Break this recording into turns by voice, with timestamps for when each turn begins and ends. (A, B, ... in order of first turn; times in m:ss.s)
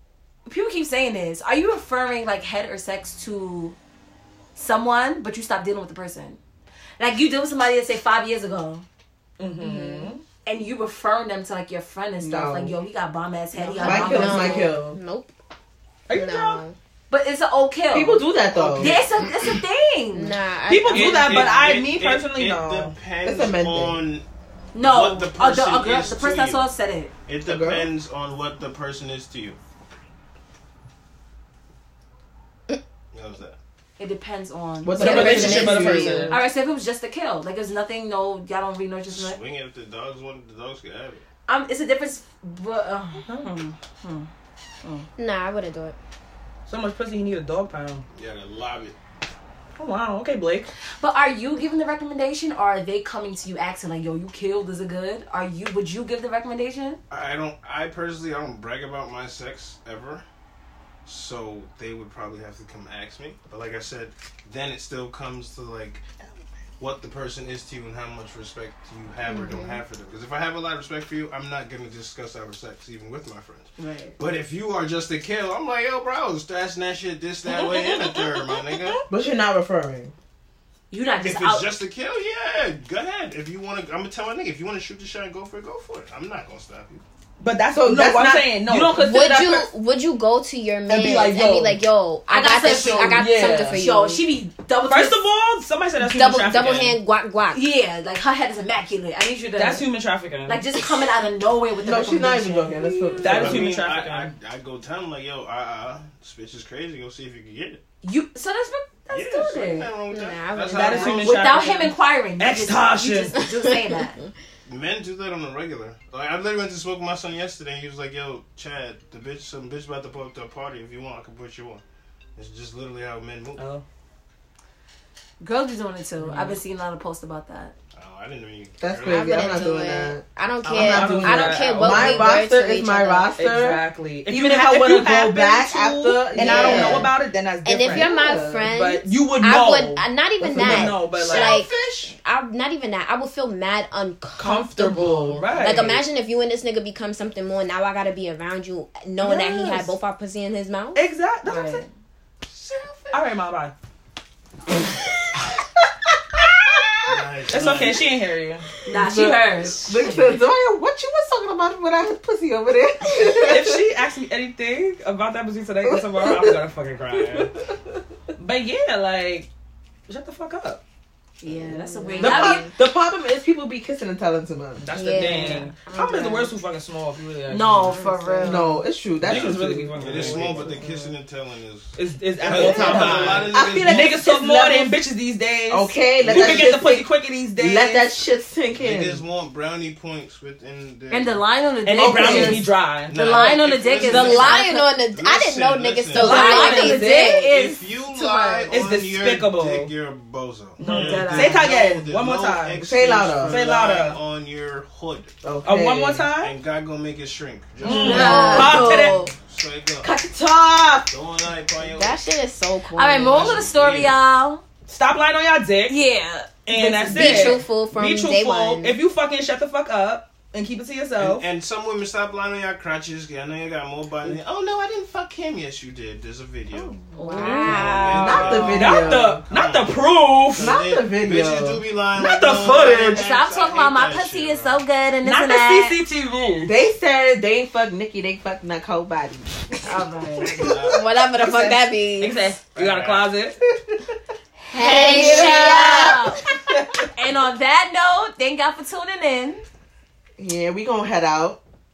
0:00.4-0:03.8 A
0:04.6-0:06.4 A
0:07.0-0:08.8 A
0:09.4-0:10.2 B
0:09.6-0:10.2 C
0:10.4-0:14.7 A
0:12.2-0:12.8 D
0:13.6-0:14.3 B
0:13.7-0:15.3 C
0:13.8-0:15.0 D
0:16.1-0:16.6 B
0:16.1-0:16.8 C
0:17.1-0:20.4 A
0:17.9-0:19.0 D
0:18.8-0:19.3 E
0:20.1-0:21.6 C
0:20.7-0:22.9 B
0:20.8-0:24.2 E
0:23.2-0:24.0 D
0:24.7-0:27.1 A
0:24.8-0:26.6 E
0:27.2-0:29.6 E
0:27.4-0:27.9 D
0:33.1-0:33.6 E
0:34.0-0:39.4 A
0:34.8-0:36.4 D
0:35.0-0:36.3 C
0:35.0-0:36.4 B
0:39.1-0:41.2 E
0:41.5-0:44.3 A
0:43.2-0:43.5 B
0:44.8-0:45.1 A
0:45.2-0:46.0 C
0:46.7-0:48.0 B
0:48.1-0:49.0 E
0:49.8-0:50.7 B
0:51.0-0:57.0 A
0:57.1-1:00.2 E
1:01.0-1:06.0 E
1:06.8-1:19.0 E
1:09.3-1:09.8 C
1:13.8-1:14.2 A
1:17.4-1:19.0 B
1:19.1-1:20.1 D
1:20.9-1:21.7 A
1:21.1-1:27.0 E
1:27.4-1:29.0 B
1:27.7-1:29.7 D
1:28.9-1:34.2 C
1:30.9-1:31.8 B
1:32.3-1:35.2 A
1:33.1-1:33.8 B
1:34.9-1:37.0 B
1:36.0-1:37.6 C
1:37.5-1:39.9 A
1:39.6-1:40.6 B
1:40.4-1:43.4 A
1:41.8-1:43.8 D
1:43.2-1:44.3 B
1:43.2-1:47.8 E
1:48.0-1:49.9 A
1:49.1-1:51.4 E
1:50.1-1:51.4 C
1:50.7-1:53.3 B
1:50.9-1:54.2 A
1:53.4-1:54.0 C
1:54.6-2:01.8 E
2:02.4-2:03.6 E
2:03.6-2:03.8 B
2:05.4-2:07.7 A
2:06.2-2:06.6 B
2:07.9-2:09.7 E
2:08.8-2:17.1 D
2:09.0-2:13.3 C
2:10.6-2:12.4 B
2:13.4-2:21.6 B
2:16.4-2:17.1 C
2:17.6-2:31.0 C
2:17.8-2:18.6 D
2:20.4-2:22.2 D
2:24.4-2:26.0 B
2:24.7-2:25.8 D
2:29.2-2:29.9 B
2:30.9-2:31.8 B
2:31.4-2:31.9 A
2:32.5-2:33.2 E
2:33.1-2:33.7 B
2:37.0-2:38.1 E
2:37.5-2:38.7 B
2:38.8-2:40.4 A
2:38.9-2:43.8 D
2:43.2-2:47.5 B
2:48.4-2:49.5 B
2:50.1-2:50.8 B
2:51.4-2:52.7 A
2:51.6-2:52.7 C
2:52.2-2:55.2 D
2:54.8-2:58.6 B
2:54.9-2:56.6 C
2:55.3-2:55.6 A
2:57.5-2:58.8 A
2:57.8-2:58.6 C
2:58.4-3:00.8 D
2:59.2-3:00.8 B
2:59.2-3:04.2 E
3:02.0-3:08.2 B
3:02.4-3:05.0 D
3:05.7-3:09.2 D
3:06.2-3:06.7 E
3:08.7-3:11.4 E
3:11.1-3:14.9 A
3:11.8-3:13.6 B
3:12.0-3:12.7 D
3:13.0-3:25.3 E
3:13.9-3:17.6 C
3:16.1-3:17.2 B
3:16.1-3:18.7 A
3:18.7-3:19.9 B
3:20.8-3:24.2 B
3:20.8-3:21.8 A
3:22.8-3:23.6 D
3:25.4-3:26.3 D
3:25.6-3:26.6 B
3:26.3-3:30.2 E
3:27.8-3:29.3 B
3:27.9-3:29.3 C
3:27.9-3:29.2 A
3:30.0-3:31.1 D
3:31.1-3:32.2 E
3:31.8-3:33.7 C
3:32.9-3:34.6 A
3:33.2-3:34.2 E
3:34.9-3:36.0 B
3:35.9-3:37.6 A
3:36.6-3:41.4 B
3:36.8-3:39.0 C
3:41.2-3:54.8 E
3:47.1-3:48.9 C
3:47.2-3:47.9 A
3:48.1-3:49.4 D
3:48.7-3:50.8 B
3:50.6-3:51.8 D
3:52.1-3:53.2 B
3:52.8-3:56.0 A
3:55.2-3:56.7 B
3:56.6-3:59.9 D
3:59.8-4:00.6 A
4:00.4-4:01.3 E
4:00.6-4:02.5 C
4:01.4-4:03.6 B
4:02.7-4:03.3 E
4:04.7-4:06.2 C
4:04.8-4:06.4 A
4:04.8-4:06.1 D
4:04.8-4:06.0 B
4:07.1-4:09.6 A
4:10.4-4:11.6 D